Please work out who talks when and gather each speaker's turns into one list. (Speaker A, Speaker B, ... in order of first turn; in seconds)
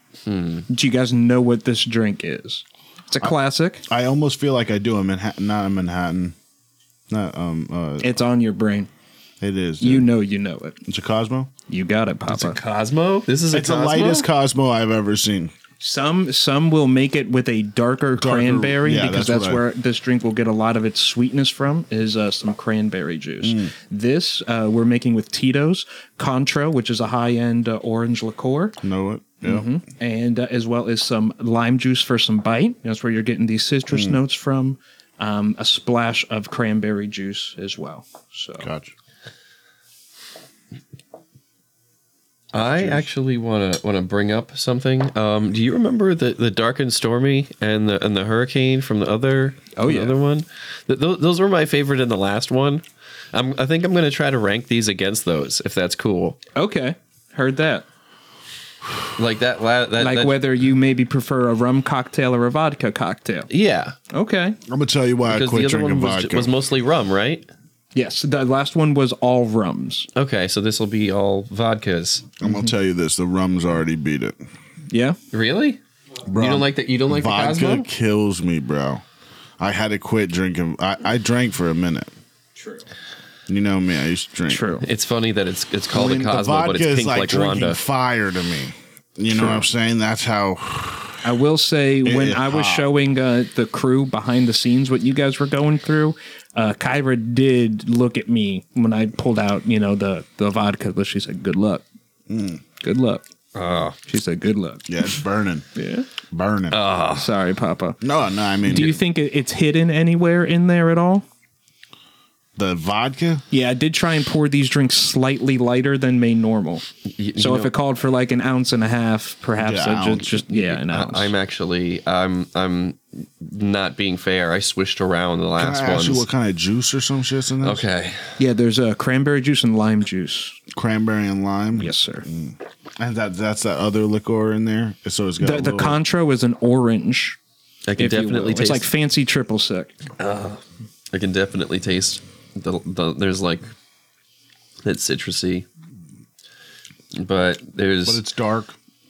Speaker A: 0.2-0.7, 12.3-14.3, 42.5-56.4, 59.1-60.4, 63.5-64.0, 65.3-67.5, 70.1-72.3, 75.3-75.8, 76.3-77.9, 84.8-87.8, 103.5-104.0, 106.7-107.3, 117.2-117.7, 120.7-126.2, 127.6-128.4, 137.8-138.9, 140.2-143.7, 144.8-145.7, 147.1-148.2
Speaker B: 0.7-3.8, 8.0-8.9, 9.8-10.8, 11.7-12.6, 15.8-28.8, 29.4-38.7, 49.7-50.2, 56.5-57.8, 60.0-63.5, 64.1-64.6, 67.9-70.1, 72.4-72.7, 74.9-75.2, 82.6-82.8, 84.5-84.8, 91.2-101.8, 102.8-103.2, 104.1-105.2, 105.7-106.1, 107.1-108.0, 108.6-111.2, 113.5-121.3, 128.4-130.6, 131.8-132.2, 135.4-137.4, 138.0-139.9
Speaker C: 3.9-6.3, 7.1-8.1, 9.4-10.1, 10.8-11.5, 13.5-15.5, 18.2-19.6, 23.4-23.7, 28.8-29.7, 33.9-34.2, 38.6-38.9, 42.6-43.1, 64.7-66.5, 72.4-74.4, 76.2-79.0, 79.6-82.1, 83.5-84.7, 85.9-91.2, 92.0-92.9, 102.3-102.6, 104.9-105.7, 106.3-106.8, 108.0-109.0, 112.5-113.4, 119.6-120.4, 125.6-127.8, 130.7-136.0, 148.0-148.8